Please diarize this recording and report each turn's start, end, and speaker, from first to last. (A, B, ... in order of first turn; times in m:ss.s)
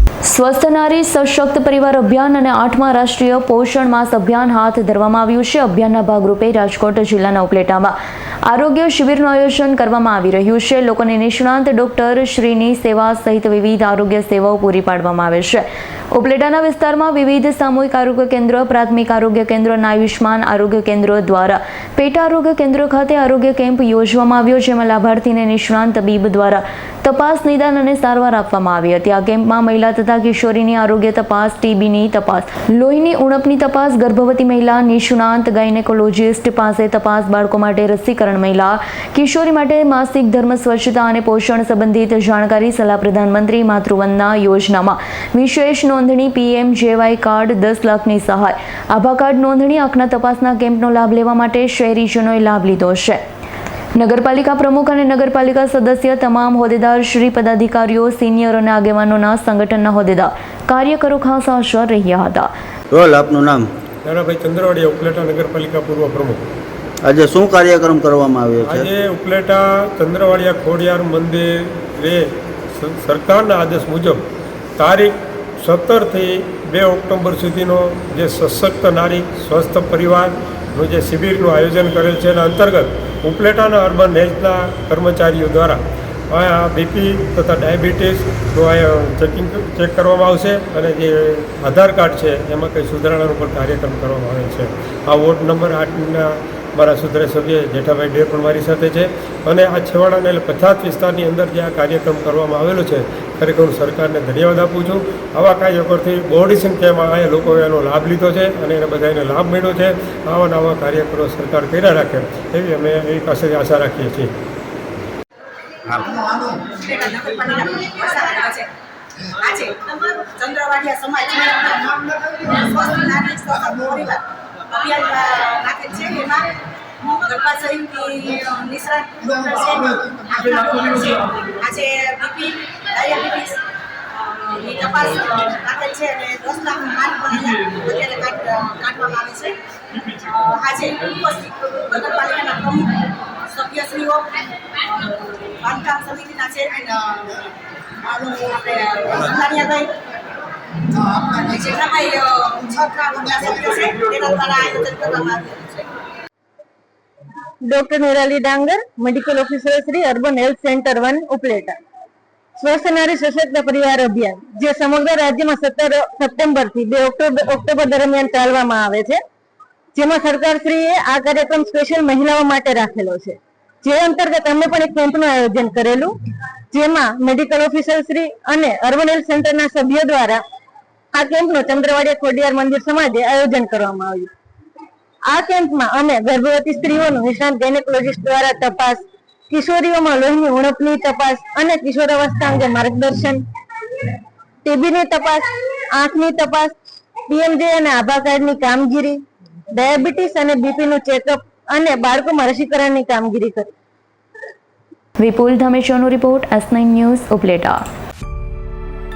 0:00.2-0:53.2 A
0:54.0-1:02.5 A
1:02.9-1:03.7 B
1:04.0-1:06.4 C
1:07.0-1:08.9 B
1:08.6-1:14.2 C
1:14.8-1:25.8 C
1:26.3-1:54.3 C
1:56.0-1:58.7 D
1:59.3-2:13.6 D
2:14.4-2:19.6 D
2:20.1-2:27.3 D
2:28.0-2:29.9 D
2:30.9-2:35.9 D
2:37.7-2:41.8 E
2:42.6-2:49.2 E
2:50.0-2:56.2 E
2:56.7-3:00.4 E
3:01.1-3:04.3 E
3:05.3-3:13.4 E
3:14.6-3:16.8 E
3:17.3-3:23.7 E
3:25.2-3:27.8 A